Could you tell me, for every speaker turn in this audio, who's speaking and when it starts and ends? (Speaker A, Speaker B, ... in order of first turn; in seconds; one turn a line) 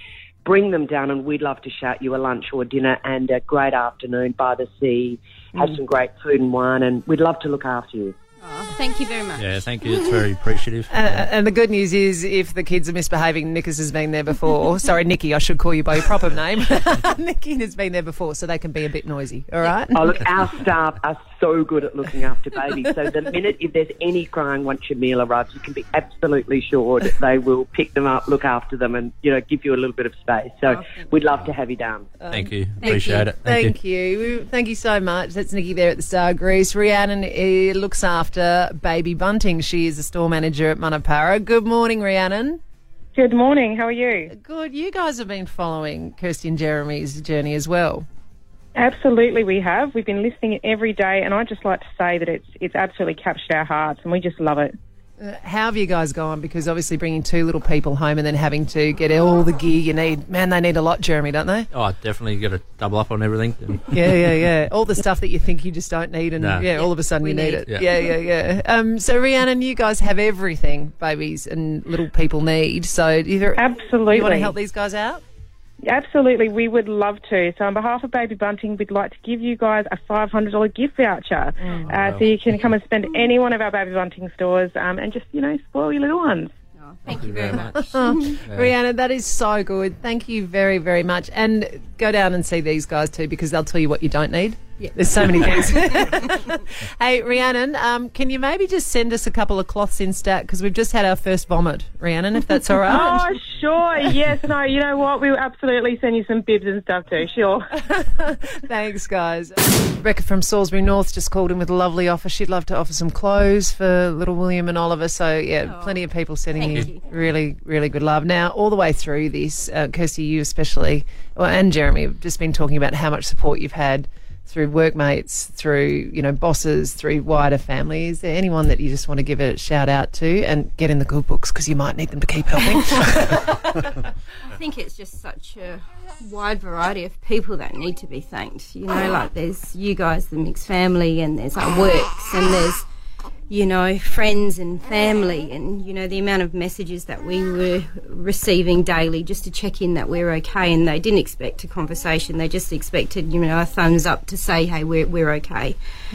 Speaker A: 0.4-8.1
Speaker B: 8.4-9.5
Speaker C: 9.4-11.2
Speaker D: 10.9-20.1
Speaker A: 19.9-32.1
Speaker B: 30.6-31.1
Speaker D: 32.2-42.6
Speaker C: 32.3-33.7
Speaker B: 32.8-33.3
Speaker E: 43.1-44.3
Speaker D: 44.3-48.0
Speaker E: 48.8-54.7
Speaker D: 55.2-61.7
Speaker C: 61.7-64.1
Speaker D: 63.9-75.2
Speaker C: 66.4-66.7
Speaker B: 66.7-67.9
Speaker E: 73.5-74.5
Speaker E: 75.8-86.5
Speaker C: 81.8-82.7
Speaker B: 86.8-88.3
Speaker C: 87.0-87.8
Speaker D: 87.7-103.2
Speaker C: 88.5-88.7
Speaker B: 94.8-95.5
Speaker E: 102.9-107.7
Speaker D: 107.8-133.7
Speaker B: 115.6-117.0
Speaker B: 134.5-142.8
Speaker B: 143.5-155.8